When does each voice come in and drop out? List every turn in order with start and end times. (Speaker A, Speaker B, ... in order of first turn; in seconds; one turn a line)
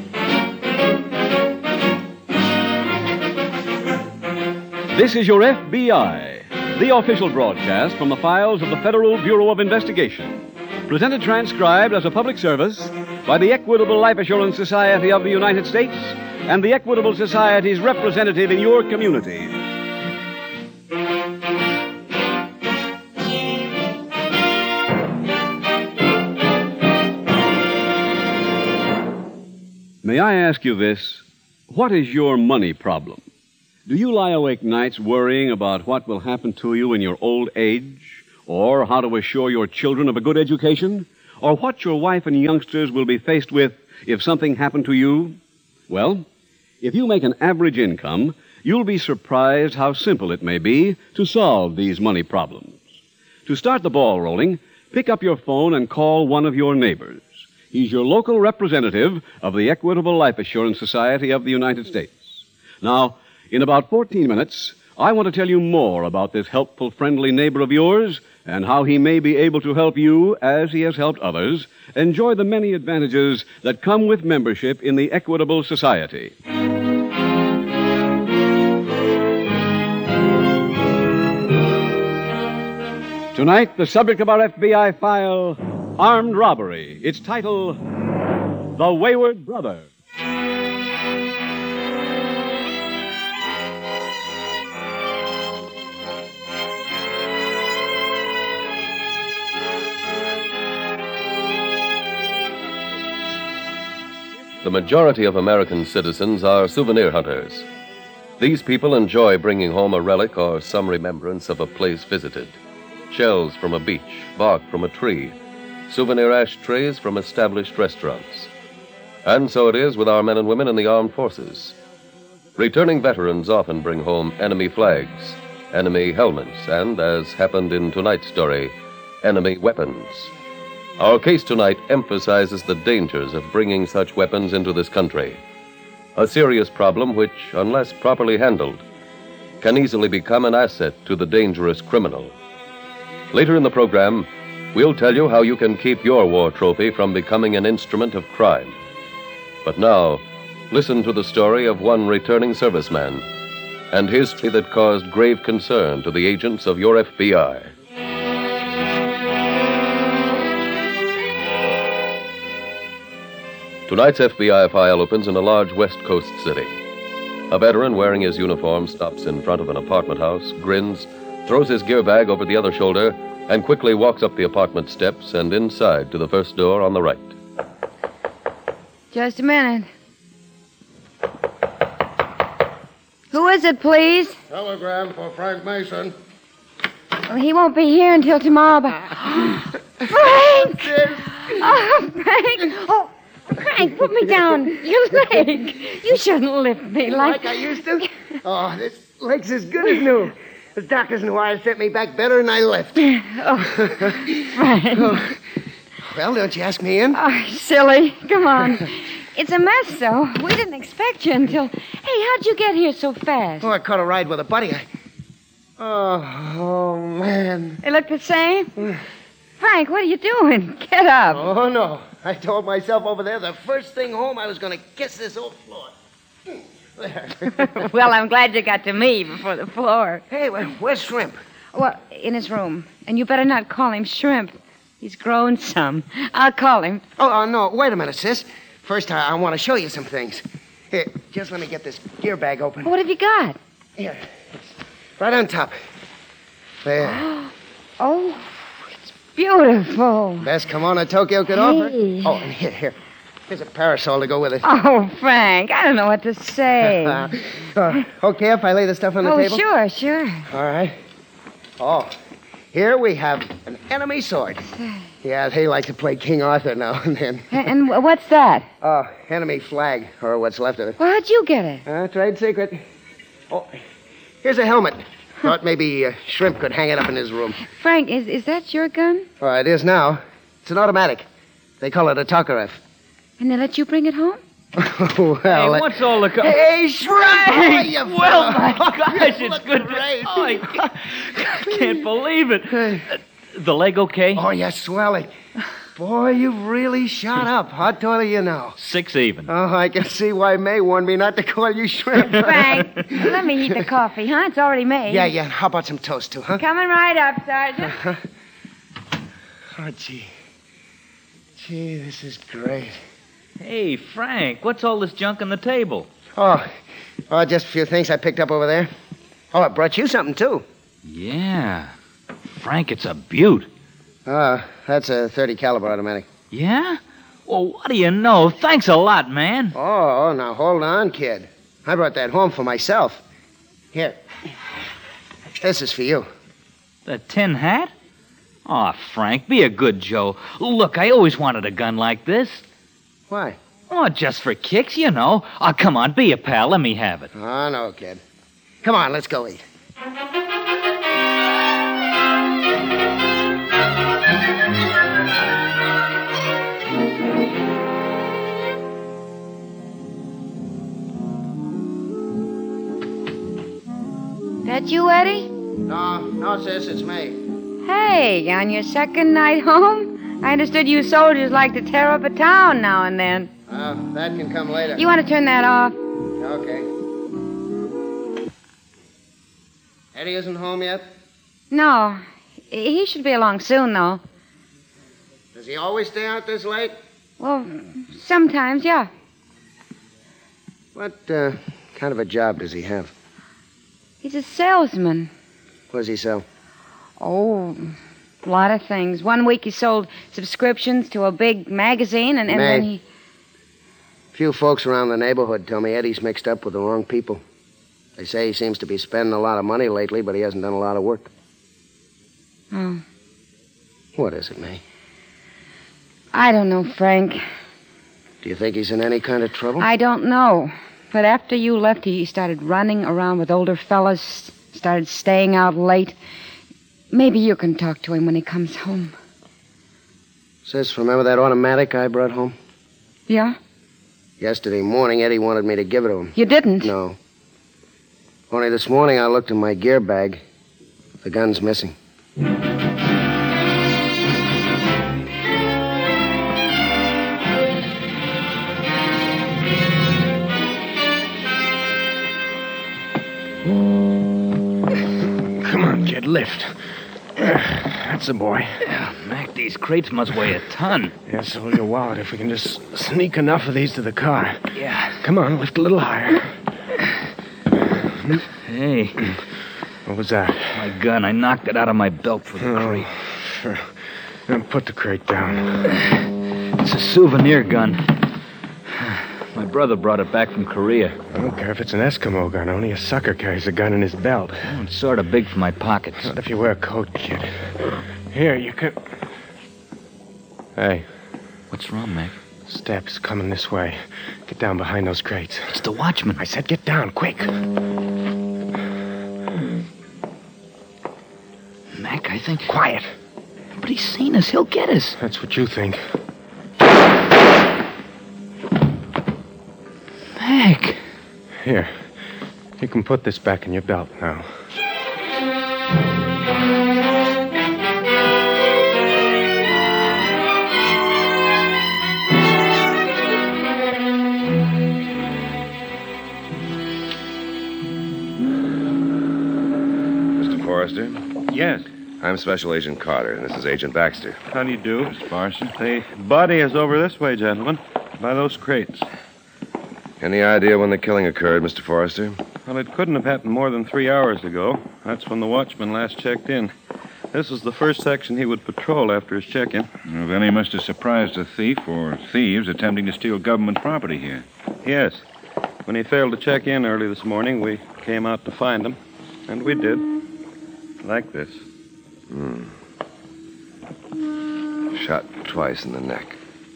Speaker A: 4.9-19.6
Speaker A: 30.0-33.2
Speaker A: 33.9-45.4
Speaker A: 45.9-46.2
Speaker A: 46.8-52.8
Speaker A: 53.5-76.3
Speaker A: 83.3-87.8
Speaker A: 88.7-89.9
Speaker B: 104.6-107.7
Speaker B: 108.4-112.5
Speaker B: 113.1-115.3
Speaker B: 115.9-118.5
Speaker B: 119.2-121.8
Speaker B: 122.6-130.3
Speaker B: 131.0-135.4
Speaker B: 136.2-138.8
Speaker B: 139.6-142.3
Speaker B: 143.3-148.8
Speaker B: 149.6-153.2
Speaker B: 153.9-157.7
Speaker B: 163.9-166.7
Speaker B: 167.5-177.3
Speaker C: 179.1-179.9
Speaker C: 183.3-184.4
Speaker D: 184.5-186.1
Speaker C: 187.3-197.7
Speaker D: 190.2-191.5
Speaker D: 197.1-203.0
Speaker C: 203.0-205.2
Speaker D: 203.8-204.4
Speaker D: 204.9-205.3
Speaker D: 206.0-207.2
Speaker C: 207.1-213.7
Speaker D: 213.6-214.8
Speaker D: 215.8-217.8
Speaker C: 217.8-218.7
Speaker C: 219.6-221.5
Speaker D: 221.3-225.9
Speaker D: 227.0-227.7
Speaker C: 227.6-230.2
Speaker D: 230.3-231.4
Speaker C: 231.7-237.0
Speaker D: 237.2-242.9
Speaker C: 242.8-243.6
Speaker D: 244.0-244.6
Speaker D: 245.2-245.7
Speaker D: 246.8-247.2
Speaker C: 247.2-247.5
Speaker C: 248.0-248.6
Speaker C: 249.2-250.5
Speaker D: 250.4-252.9
Speaker C: 251.6-252.3
Speaker D: 253.5-254.6
Speaker C: 254.6-257.3
Speaker D: 257.1-259.6
Speaker C: 259.2-260.5
Speaker D: 260.5-260.9
Speaker D: 261.8-262.1
Speaker D: 262.7-264.7
Speaker C: 264.7-265.0
Speaker D: 265.2-267.5
Speaker C: 267.5-268.7
Speaker D: 268.8-271.0
Speaker C: 271.0-271.8
Speaker D: 271.8-272.8
Speaker D: 273.5-273.8
Speaker D: 274.4-277.6
Speaker C: 277.6-279.3
Speaker D: 279.4-281.2
Speaker D: 281.8-282.8
Speaker C: 283.4-284.4
Speaker D: 284.8-290.8
Speaker E: 285.5-286.6
Speaker E: 287.1-294.4
Speaker D: 291.5-292.0
Speaker D: 292.7-293.0
Speaker D: 294.3-295.3
Speaker D: 295.9-298.8
Speaker E: 298.8-299.5
Speaker D: 299.5-302.8
Speaker C: 302.4-305.3
Speaker D: 305.1-306.6
Speaker C: 306.6-308.0
Speaker D: 307.9-308.2
Speaker D: 309.8-310.3
Speaker D: 311.6-313.0
Speaker E: 313.6-316.1
Speaker D: 316.3-316.7
Speaker D: 317.3-318.9
Speaker D: 319.5-320.6
Speaker E: 321.0-321.9
Speaker E: 322.4-323.7
Speaker D: 324.2-326.3
Speaker E: 326.5-329.8
Speaker D: 329.7-333.2
Speaker D: 333.9-334.2
Speaker D: 335.6-336.3
Speaker E: 337.1-337.9
Speaker E: 338.6-342.6
Speaker D: 343.3-343.6
Speaker E: 343.9-347.3
Speaker D: 347.3-348.2
Speaker D: 348.8-349.6
Speaker C: 364.6-365.5
Speaker D: 365.9-367.4
Speaker C: 367.8-373.5
Speaker D: 373.7-375.1
Speaker C: 374.9-376.0
Speaker D: 376.4-376.9
Speaker D: 380.1-381.0
Speaker C: 381.7-384.2
Speaker D: 385.5-386.9
Speaker C: 387.4-389.1
Speaker D: 390.9-393.1
Speaker C: 394.2-395.3
Speaker D: 395.9-396.4
Speaker C: 397.2-397.8
Speaker C: 398.4-403.0
Speaker D: 402.5-402.9
Speaker D: 404.3-407.4
Speaker D: 408.2-411.3
Speaker C: 412.7-413.0
Speaker D: 414.1-414.8
Speaker C: 416.3-417.4
Speaker D: 418.4-419.9
Speaker C: 419.8-426.1
Speaker C: 427.1-429.1
Speaker D: 430.6-432.5
Speaker C: 433.3-433.6
Speaker D: 434.4-437.2
Speaker C: 436.3-436.9
Speaker D: 438.5-440.4
Speaker D: 441.2-441.9
Speaker F: 455.6-456.8
Speaker F: 457.4-458.8
Speaker E: 458.8-461.1
Speaker F: 461.3-464.7
Speaker E: 464.7-465.2
Speaker F: 465.2-466.5
Speaker E: 468.6-469.2
Speaker F: 470.1-470.8
Speaker E: 470.7-473.1
Speaker F: 472.6-473.9
Speaker F: 474.5-475.9
Speaker E: 476.8-478.2
Speaker E: 478.9-481.2
Speaker F: 481.3-484.8
Speaker E: 484.6-486.3
Speaker F: 486.2-489.0
Speaker F: 490.8-491.1
Speaker E: 491.7-492.3
Speaker F: 492.7-495.8
Speaker E: 495.7-496.4
Speaker F: 496.4-497.6
Speaker E: 501.9-502.7
Speaker F: 502.6-503.1
Speaker E: 503.8-505.2
Speaker F: 505.2-506.0
Speaker E: 510.4-511.0
Speaker F: 511.6-512.0
Speaker F: 512.8-514.5
Speaker G: 530.4-531.2
Speaker H: 531.5-531.8
Speaker G: 532.2-534.4
Speaker H: 534.5-535.1
Speaker I: 535.1-535.7
Speaker H: 535.8-539.0
Speaker G: 540.2-542.4
Speaker H: 542.6-546.7
Speaker H: 547.3-549.9
Speaker I: 550.0-554.4
Speaker H: 554.8-555.2
Speaker H: 555.9-559.0
Speaker H: 559.5-560.1
Speaker H: 561.0-561.6
Speaker G: 562.3-562.7
Speaker G: 564.9-566.4